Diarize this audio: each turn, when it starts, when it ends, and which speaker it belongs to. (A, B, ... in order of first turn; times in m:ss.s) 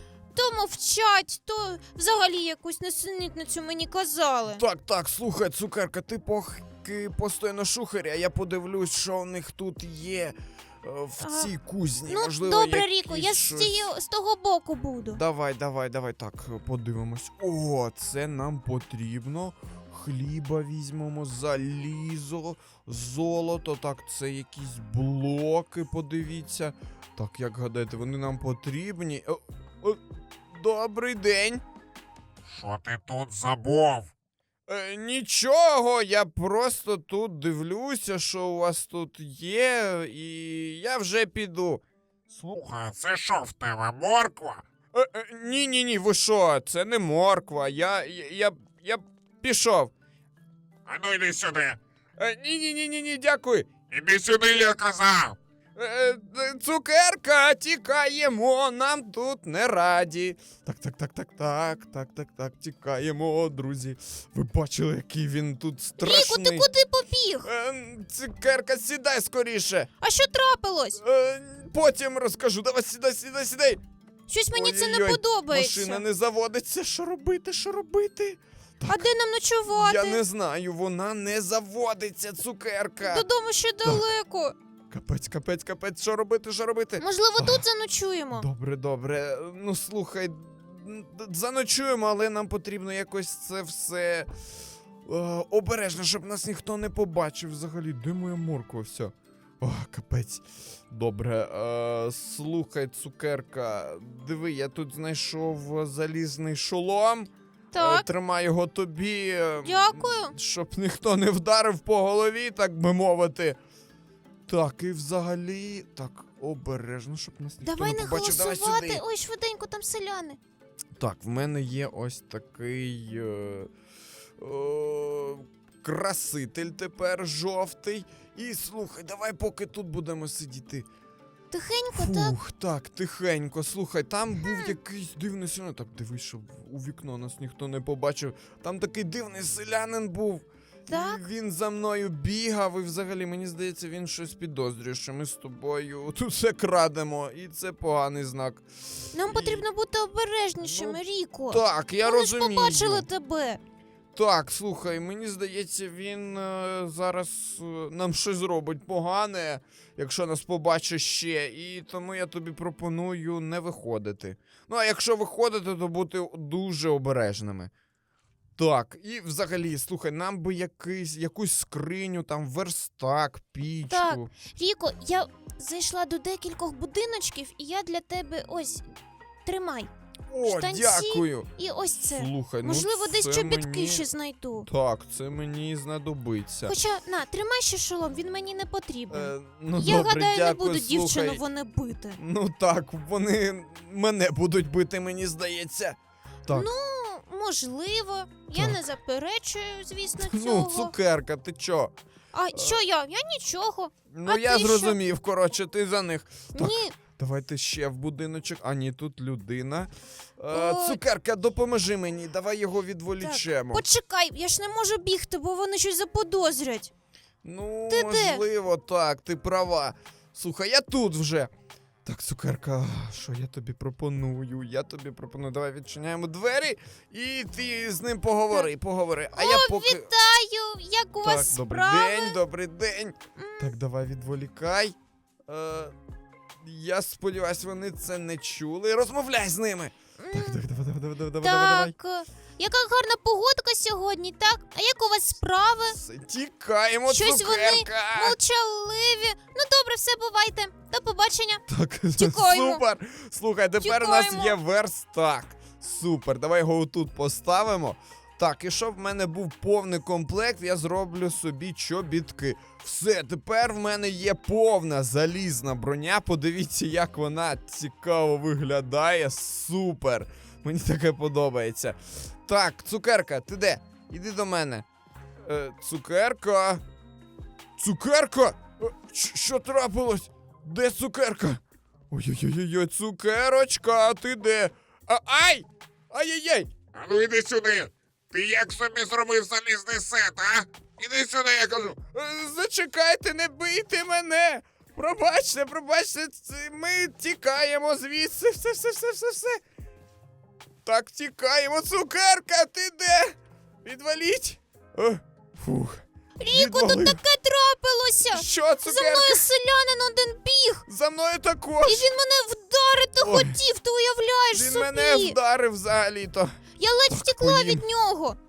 0:00.3-0:04.6 A
0:04.5-0:13.9 B
0:11.2-0:11.5 A
0:12.1-0:15.2 A
0:15.0-0:31.6 B
0:32.5-0:34.1 C
0:34.7-0:41.8 B
0:42.3-0:44.6 C
0:44.9-0:49.9 B
0:50.9-0:51.8 C
0:52.2-0:53.7 B
0:53.9-0:55.4 C
0:55.8-1:06.7 B
1:06.0-1:07.5 A
1:07.4-1:09.9 B
1:10.0-1:11.0 A
1:11.0-1:13.8 B
1:14.3-1:16.0 A
1:14.5-1:19.1 B
1:18.9-1:20.2 A
1:19.7-1:23.3 B
1:23.0-1:24.6 A
1:24.9-1:27.6 B
1:27.0-1:28.5 A
1:28.3-1:34.3 B
1:35.0-1:53.6 B
1:47.7-1:48.0 A
1:49.6-1:50.4 A
1:54.5-1:59.0 B
1:57.6-2:00.4 A
2:01.0-2:03.7 B
2:04.4-2:10.8 B
2:11.5-2:12.4 A
2:11.9-2:29.6 B
2:14.4-2:14.8 A
2:20.9-2:21.2 A
2:29.1-2:33.6 A
2:30.6-2:33.1 B
2:34.1-2:47.7 B
2:48.6-2:54.3 B
2:53.8-2:58.9 A
2:59.4-2:59.9 A
3:00.3-3:01.5 B
3:00.4-3:04.7 A
3:02.0-3:04.1 B
3:04.6-3:06.7 B
3:06.6-3:12.2 A
3:09.1-3:11.4 B
3:12.2-3:16.7 B
3:16.5-3:20.9 A
3:18.5-3:18.8 B
3:20.2-3:21.9 B
3:22.3-3:25.0 A
3:22.5-3:22.8 B
3:24.1-3:33.8 B
3:26.5-3:27.0 A
3:30.5-3:31.0 A
3:33.2-3:36.9 A
3:37.4-3:41.5 B
3:37.9-3:38.4 A
3:42.0-3:50.1 B
3:49.3-3:52.4 A
3:51.2-3:55.0 B
3:53.4-3:53.7 A
3:55.5-3:55.9 B
3:56.6-4:01.9 B
4:00.2-4:00.6 A
4:01.4-4:06.0 A
4:05.9-4:08.4 B
4:07.1-4:11.6 A
4:11.7-4:34.8 B
4:12.2-4:12.8 A
4:13.8-4:14.6 A
4:35.4-4:36.8 B
4:37.8-4:46.7 B
4:46.9-4:51.9 C
4:51.9-4:59.6 B
5:00.8-5:07.2 B
5:06.4-5:10.9 A
5:08.2-5:09.4 B
5:10.9-5:12.1 B
5:11.8-5:15.4 A
5:13.2-5:13.6 B
5:14.5-5:17.8 B
5:16.8-5:18.4 A